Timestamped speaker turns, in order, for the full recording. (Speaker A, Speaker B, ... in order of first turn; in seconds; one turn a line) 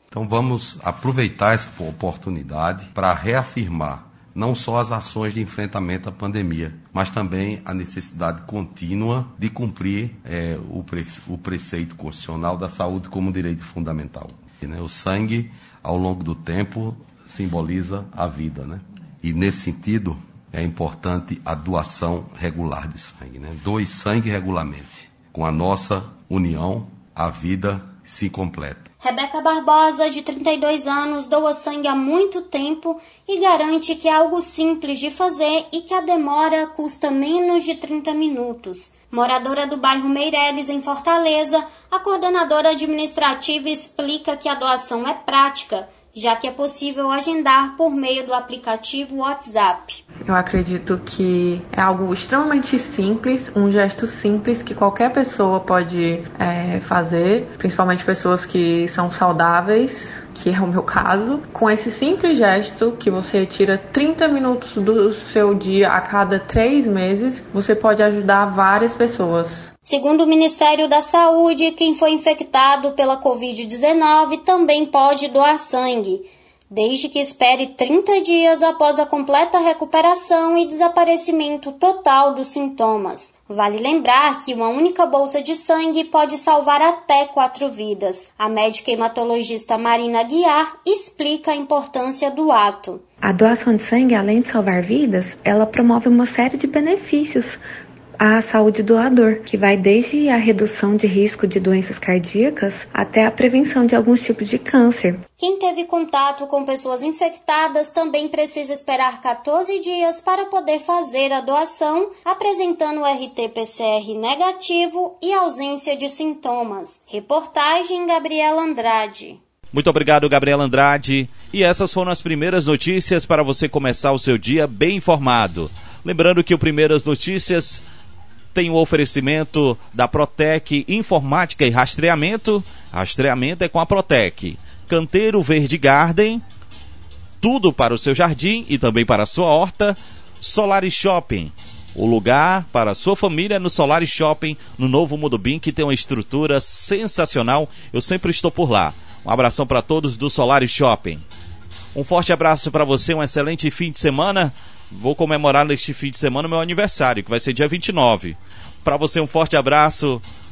Speaker A: 0.1-28.9
Speaker B: 29.0-50.0
Speaker C: 50.2-69.7
Speaker B: 69.8-93.0
Speaker D: 93.2-97.6
Speaker D: 98.2-105.2
Speaker B: 105.4-119.4
Speaker E: 119.7-127.8
Speaker E: 128.5-136.4
Speaker E: 137.4-151.2
Speaker E: 151.9-160.2